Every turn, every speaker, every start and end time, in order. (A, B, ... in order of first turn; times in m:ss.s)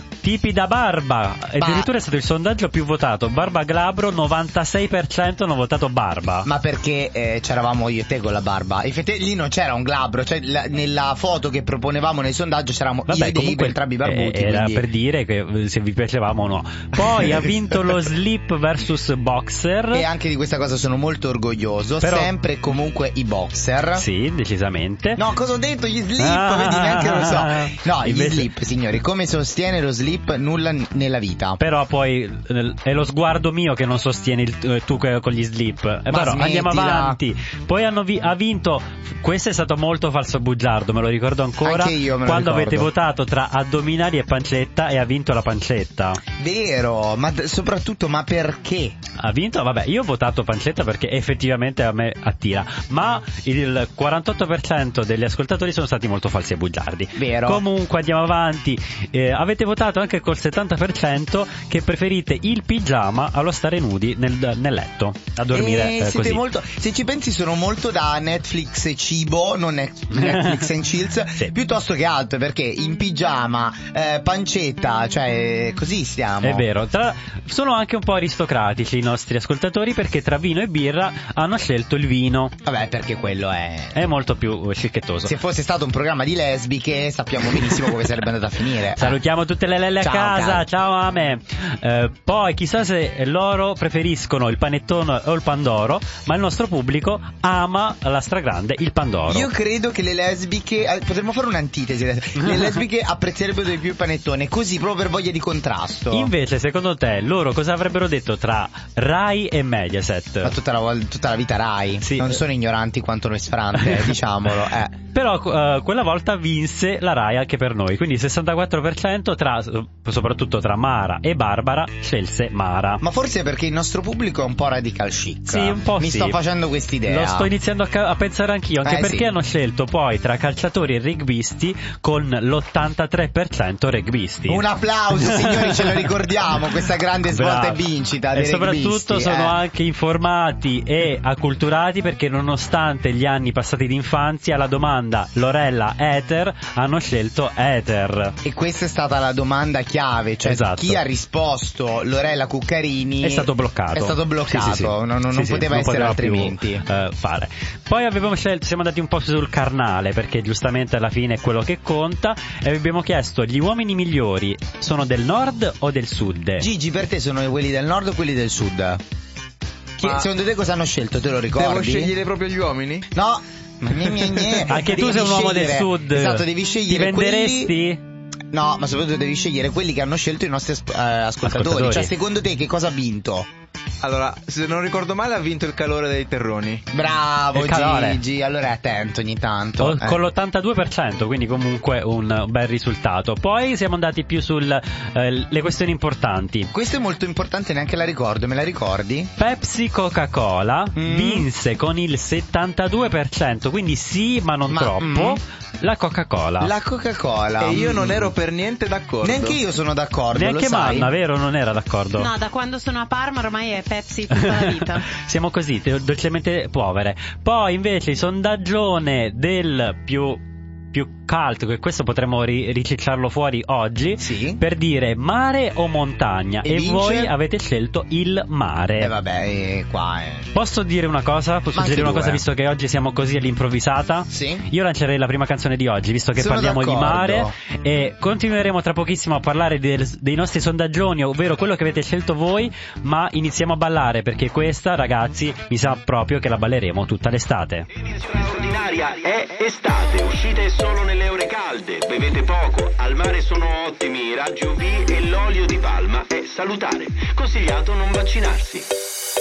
0:00.2-0:06.5 A
0:01.6-0:01.9 B
0:06.4-0:14.9 B
0:13.1-0:20.0 A
0:17.0-0:17.4 B
0:19.9-0:24.0 B
0:22.0-0:22.3 A
0:24.0-0:25.2 A
0:25.2-0:31.6 B
0:26.2-0:28.5 A
0:31.6-0:46.2 A
0:36.1-0:37.2 B
0:41.6-0:42.9 B
0:46.4-0:49.0 B
0:49.2-1:06.4 A
0:57.2-0:57.6 B
1:05.5-1:16.6 B
1:10.1-1:10.7 A
1:16.4-1:22.5 A
1:22.6-1:24.1 B
1:23.9-1:25.3 A
1:25.2-1:29.2 B
1:29.0-1:39.5 A
1:30.0-1:30.7 B
1:39.3-1:46.3 B
1:42.4-1:42.7 A
1:46.1-1:50.5 A
1:50.4-1:55.0 B
1:52.0-1:52.4 A
1:53.8-1:54.1 A
1:55.1-2:03.0 A
2:03.0-2:07.5 B
2:05.5-2:06.4 A
2:07.0-2:14.6 A
2:08.8-2:09.3 B
2:14.5-2:19.6 B
2:15.2-2:16.1 A
2:17.3-2:28.4 A
2:28.4-2:36.8 B
2:30.4-2:31.0 A
2:33.2-2:46.7 A
2:46.6-2:49.0 B
2:50.0-2:52.1 B
2:51.6-2:53.1 C
2:53.1-2:57.8 B
2:54.7-2:58.0 A
2:58.5-3:03.5 B
3:01.4-3:02.1 A
3:04.0-3:06.8 C
3:06.9-3:10.2 B
3:07.5-3:08.2 A
3:09.8-3:16.7 A
3:16.7-3:19.3 B
3:19.4-3:26.7 A
3:21.0-3:21.5 B
3:24.7-3:25.4 B
3:26.6-3:28.3 B
3:27.6-3:29.6 C
3:29.2-3:31.1 B
3:30.3-3:32.3 A
3:32.2-3:35.1 D
3:34.3-3:49.1 A
3:44.2-3:44.6 B
3:46.6-3:47.3 B
3:49.0-3:50.5 B
3:50.5-4:07.9 A
3:51.7-3:52.4 B
3:54.3-3:54.6 B
3:56.4-3:57.6 B
4:08.0-4:18.9 E